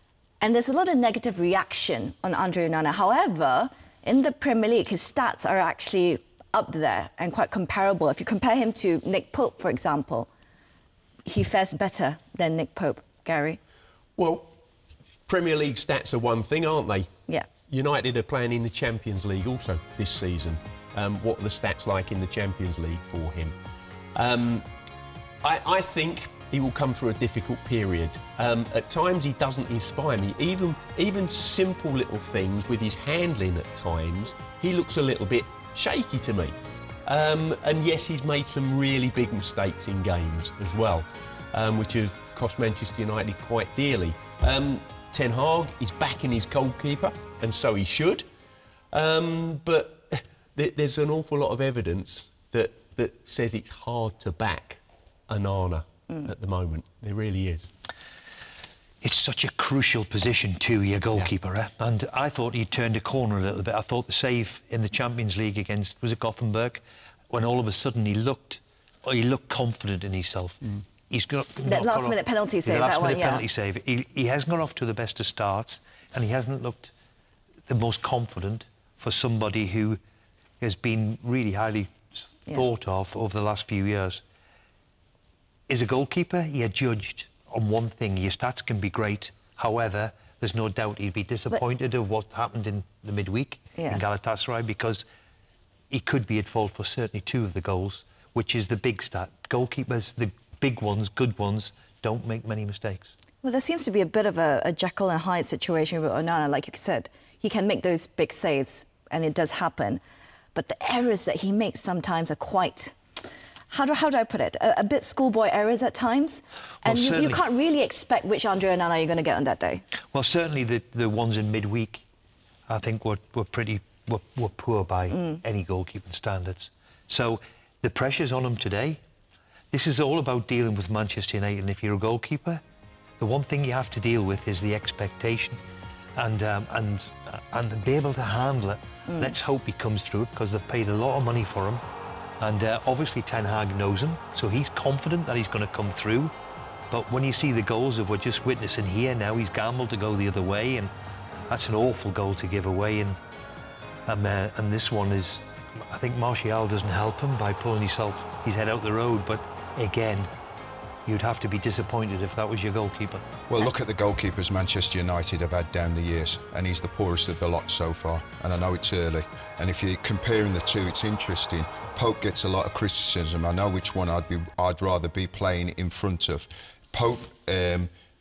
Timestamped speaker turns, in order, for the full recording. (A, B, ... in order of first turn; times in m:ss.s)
0:00.4-0:10.3 A
0:11.3-0:13.6 A
0:14.2-0:14.6 B
0:15.3-0:17.1 B
0:17.7-0:23.6 B
0:24.2-0:24.7 B
0:25.4-0:48.3 B
0:48.9-0:57.7 B
0:59.0-1:16.9 C
1:11.7-1:13.5 A
1:17.7-1:20.0 C
1:20.6-1:24.2 C
1:25.7-1:35.0 C
1:35.9-1:43.1 C
1:43.4-1:50.0 A
1:50.5-1:53.0 A
1:53.7-1:59.8 A
1:56.8-1:57.4 C
2:00.1-2:02.0 C
2:02.7-2:09.0 C
2:09.7-2:12.6 C
2:13.2-2:15.6 C
2:16.2-2:21.8 C
2:19.1-2:19.3 A
2:22.4-2:26.3 C
2:26.9-2:30.9 C
2:31.5-2:33.2 C
2:34.1-2:40.3 C
2:41.1-2:43.3 C
2:43.5-2:57.9 D